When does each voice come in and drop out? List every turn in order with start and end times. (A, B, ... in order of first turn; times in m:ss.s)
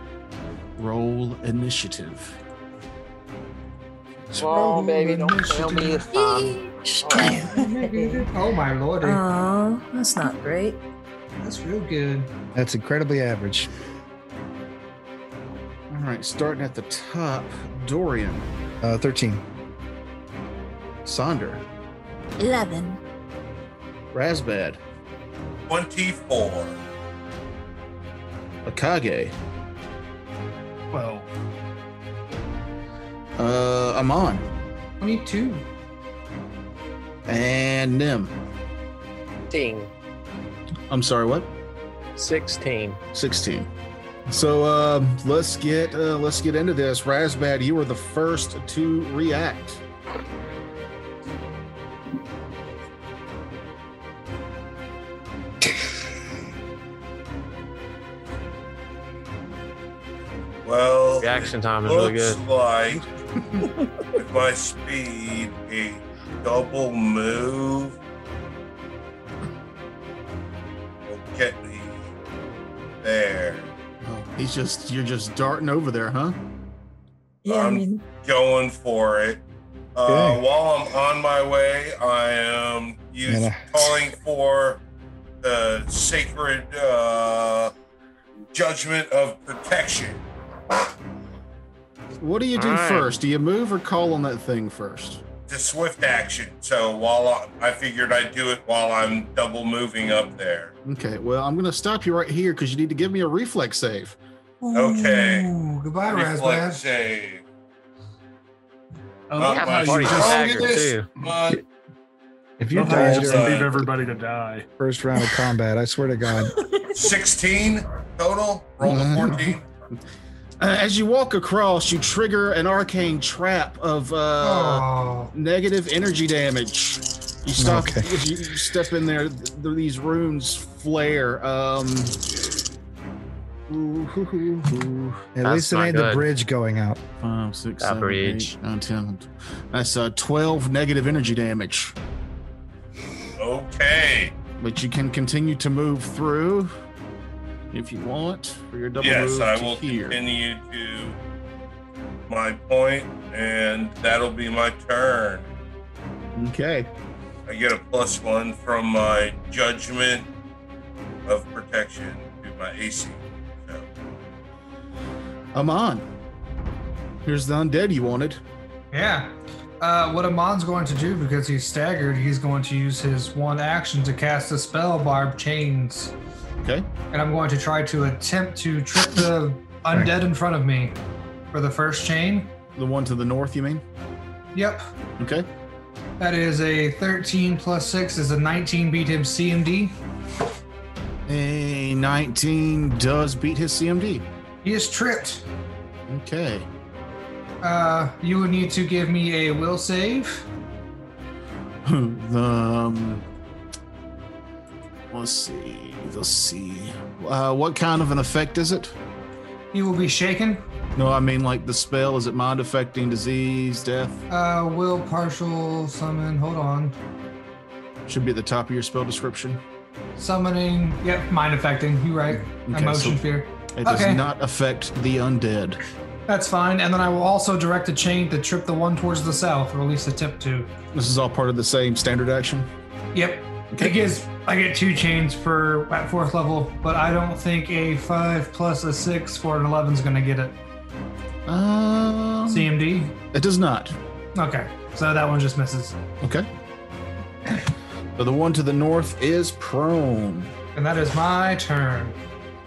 0:00.8-0:02.4 A
0:04.3-0:07.5 B
0:04.4-0:06.1 C
0:06.1-0:08.3 D
0:07.3-0:09.2 C
0:09.0-0:10.8 D
0:11.4-0:12.3 C
0:12.5-0:13.7 E
0:15.9-0:18.5 A
0:18.8-0:19.4 E
0:21.0-0:21.6 A
0:22.4-0:23.0 D
0:24.1-0:24.8 A
0:25.7-0:26.8 F
0:28.6-0:29.3 A
0:30.9-0:31.3 G
0:33.4-0:34.4 A
0:35.0-0:35.6 C
0:37.3-0:38.3 A
0:39.5-0:39.9 B
0:40.9-0:41.5 A
0:42.2-0:43.0 B
0:43.1-0:43.7 A
0:44.3-0:49.8 A
1:00.6-1:03.0 F
1:01.2-1:02.4 B
1:02.9-1:03.7 A
1:04.1-1:08.0 F
1:11.0-1:12.1 F
1:13.0-1:13.7 F
1:14.0-1:16.4 A
1:17.4-1:18.0 D
1:17.5-1:19.4 F
1:19.9-1:24.8 F
1:20.0-1:20.4 E
1:23.2-1:23.9 E
1:25.4-1:27.7 F
1:28.5-1:30.2 F
1:32.2-1:35.2 A
1:32.6-1:33.1 B
1:35.5-1:40.7 F
1:40.8-1:44.2 A
1:44.6-1:46.8 C
1:44.7-1:45.5 F
1:46.1-1:47.4 F
1:49.3-1:51.0 G
1:49.4-1:51.6 F
1:49.4-1:51.1 B
1:52.6-1:53.7 E
1:52.7-1:54.7 G
1:52.8-1:53.8 F
1:54.8-1:56.5 E
1:56.8-1:59.6 F
1:58.8-1:59.6 A
2:00.6-2:12.2 A
2:04.4-2:05.3 C
2:07.6-2:08.1 E
2:13.7-2:15.3 A
2:15.3-2:17.0 E
2:15.4-2:16.3 B
2:17.2-2:21.9 A
2:17.8-2:18.5 B
2:23.4-2:24.3 F
2:24.6-2:26.7 A
2:27.7-2:30.2 A
2:29.0-2:31.2 F
2:32.3-2:35.5 F
2:36.3-2:36.9 A
2:37.5-2:40.3 F
2:41.3-2:43.8 F
2:45.5-2:46.0 A
2:47.2-2:48.4 A
2:48.9-2:56.1 C
2:56.6-2:56.9 A
2:57.1-3:01.0 C
3:01.5-3:02.5 C
3:02.8-3:03.8 A
3:04.5-3:04.8 C
3:05.2-3:05.5 A
3:06.2-3:10.0 C
3:11.3-3:14.3 A
3:14.6-3:15.4 C
3:16.1-3:16.7 A
3:17.6-3:20.4 C
3:21.8-3:23.2 A
3:25.1-3:28.9 A
3:29.7-3:30.6 C
3:31.0-3:34.2 A
3:34.3-3:36.9 C
3:38.1-3:39.6 A
3:40.2-3:44.2 C
3:42.6-3:45.8 A
3:46.3-3:50.7 C
3:50.9-3:52.7 A
3:53.1-4:00.6 C
3:53.7-3:54.1 A
4:01.4-4:02.7 A
4:02.5-4:03.1 C
4:03.3-4:04.0 A
4:04.3-4:06.0 C
4:06.2-4:06.5 A
4:08.2-4:10.5 A
4:10.7-4:12.2 C